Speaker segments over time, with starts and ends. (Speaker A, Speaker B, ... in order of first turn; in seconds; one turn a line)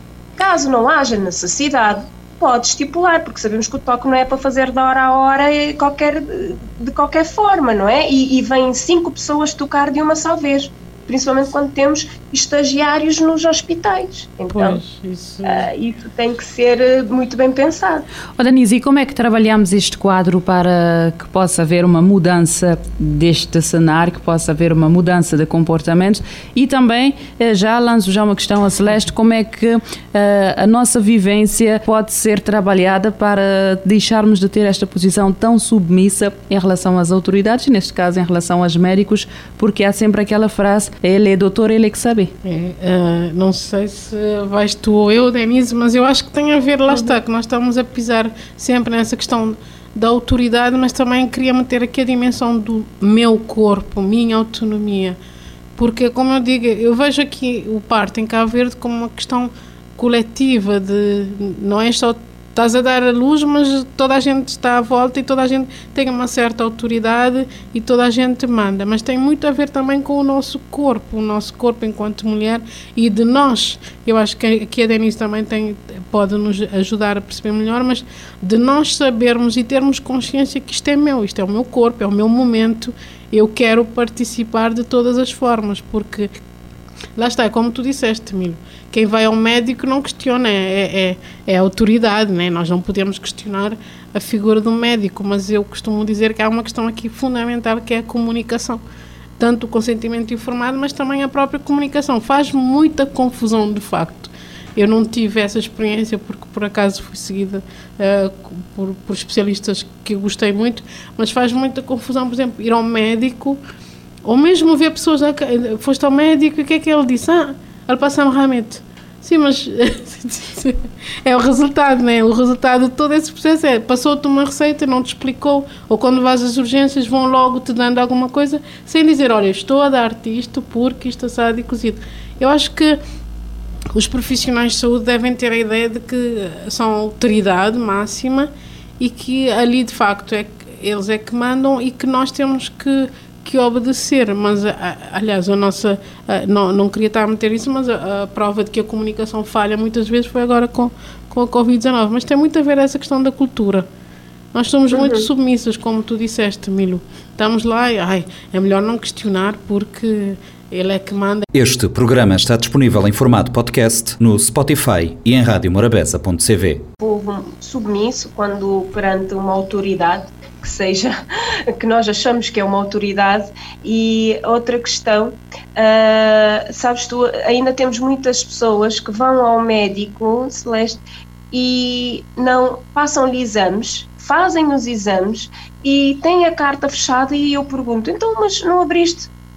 Speaker A: 0.4-14.8
Speaker B: 14.5-15.7
Speaker A: 15.4-18.1
Speaker C: 18.4-42.3
Speaker B: 42.4-55.2
Speaker B: 55.8-86.3
Speaker B: 87.2-98.8
Speaker B: 99.4-113.6
Speaker B: 114.2-133.0
Speaker B: 133.9-153.9
Speaker B: 154.5-161.5
Speaker A: 154.9-155.3
Speaker D: 161.5-166.8
Speaker A: 167.0-171.2
Speaker A: 171.7-189.3